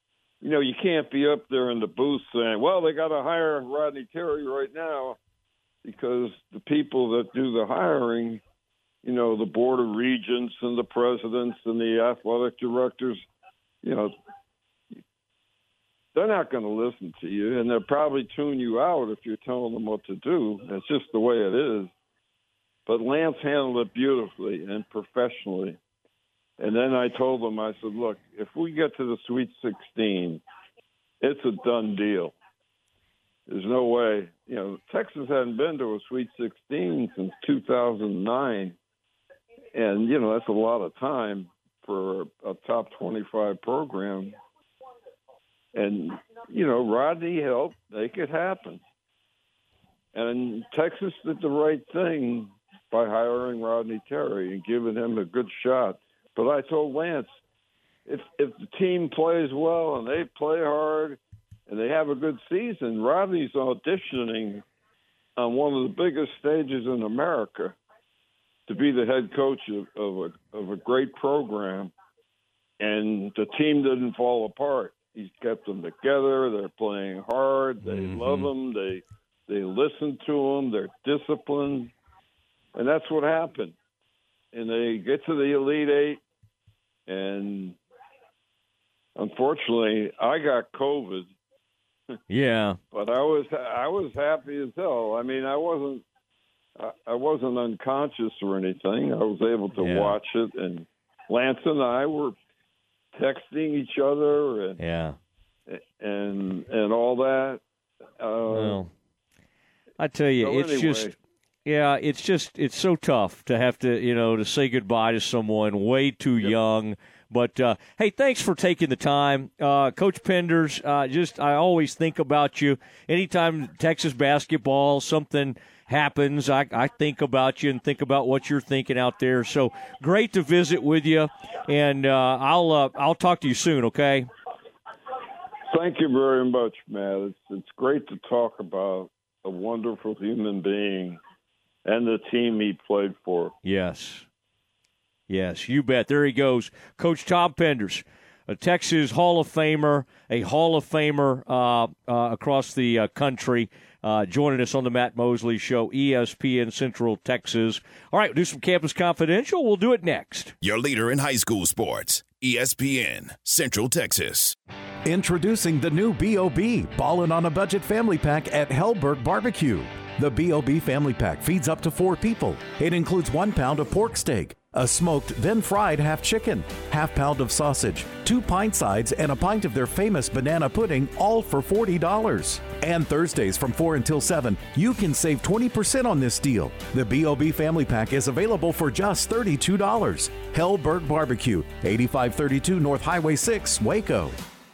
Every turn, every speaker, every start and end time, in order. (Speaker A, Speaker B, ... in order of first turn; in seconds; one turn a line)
Speaker A: 0.4-5.2
Speaker A: 5.8-8.4
Speaker A: 9.0-13.2
Speaker A: 13.8-14.1
Speaker A: 16.1-21.9
Speaker A: 22.9-25.8
Speaker A: 26.6-30.4
Speaker A: 31.2-32.3
Speaker A: 33.5-38.8
Speaker A: 39.7-44.4
Speaker A: 45.7-48.8
Speaker A: 50.1-57.3
Speaker A: 58.0-64.6
Speaker A: 65.4-67.8
Speaker A: 68.7-71.9
Speaker A: 72.8-81.9
Speaker B: 77.8-78.5
Speaker A: 82.7-83.7
Speaker A: 84.5-86.2
Speaker A: 87.1-87.8
Speaker A: 89.2-91.3
Speaker B: 92.3-92.8
Speaker A: 92.9-96.0
Speaker A: 96.8-102.3
Speaker B: 99.8-100.2
Speaker A: 103.1-104.8
Speaker B: 104.8-105.2
Speaker A: 105.7-107.6
Speaker A: 108.2-108.8
Speaker B: 108.5-108.9
Speaker B: 110.0-111.1
Speaker A: 110.4-111.1
Speaker B: 111.7-134.3
Speaker A: 135.7-141.2
Speaker A: 141.8-143.5
Speaker B: 143.6-144.2
Speaker B: 145.3-160.5
Speaker C: 160.6-164.5
Speaker D: 165.0-194.3